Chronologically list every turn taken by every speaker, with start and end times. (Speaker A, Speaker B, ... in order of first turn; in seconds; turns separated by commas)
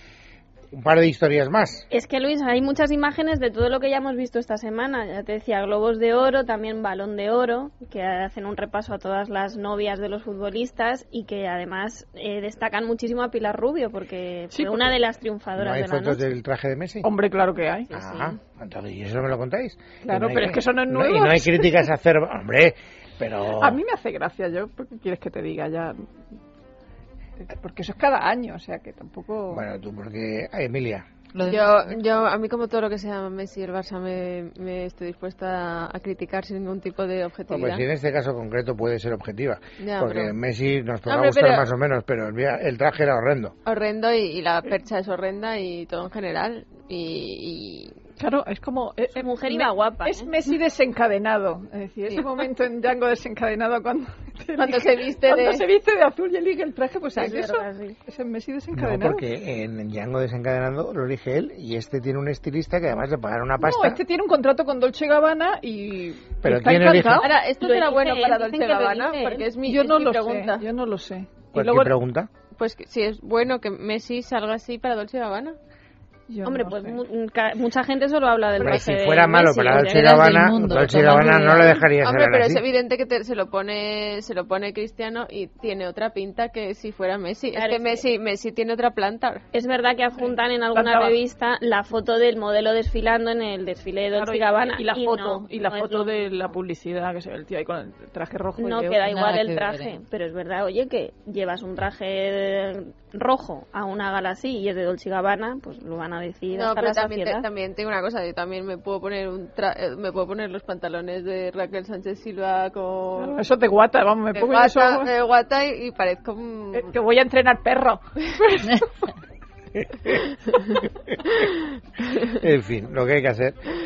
Speaker A: 0.7-1.9, Speaker B: 1.9-16.3, Speaker C: 14.5-15.0, Speaker A: 15.6-17.1, Speaker C: 17.0-17.9, Speaker B: 17.9-18.4, Speaker A: 17.9-23.8, Speaker C: 20.1-21.9, Speaker C: 23.6-26.1, Speaker C: 27.4-29.6, Speaker A: 29.5-31.1, Speaker D: 31.3-32.0, Speaker E: 31.4-37.9, Speaker A: 37.5-43.5, Speaker E: 39.8-40.3, Speaker E: 41.1-41.7, Speaker E: 43.6-48.0, Speaker C: 48.2-59.2, Speaker B: 49.1-50.3, Speaker E: 54.6-55.6, Speaker B: 57.1-58.0, Speaker A: 58.7-64.0, Speaker C: 63.6-67.3, Speaker A: 66.4-67.3, Speaker E: 67.2-70.6, Speaker B: 67.5-69.5, Speaker C: 69.6-71.9, Speaker A: 71.5-72.3, Speaker E: 72.5-75.6, Speaker C: 76.3-77.0, Speaker B: 76.4-80.5, Speaker A: 78.6-82.6, Speaker D: 79.7-81.8, Speaker E: 82.0-89.4, Speaker B: 87.5-88.0, Speaker B: 89.5-96.1, Speaker C: 90.2-91.2, Speaker C: 94.1-99.1, Speaker B: 98.6-107.5, Speaker D: 99.1-100.0, Speaker E: 106.5-113.4, Speaker C: 113.2-115.1, Speaker E: 114.3-116.9, Speaker C: 116.7-119.1, Speaker A: 119.7-120.2, Speaker A: 122.2-123.6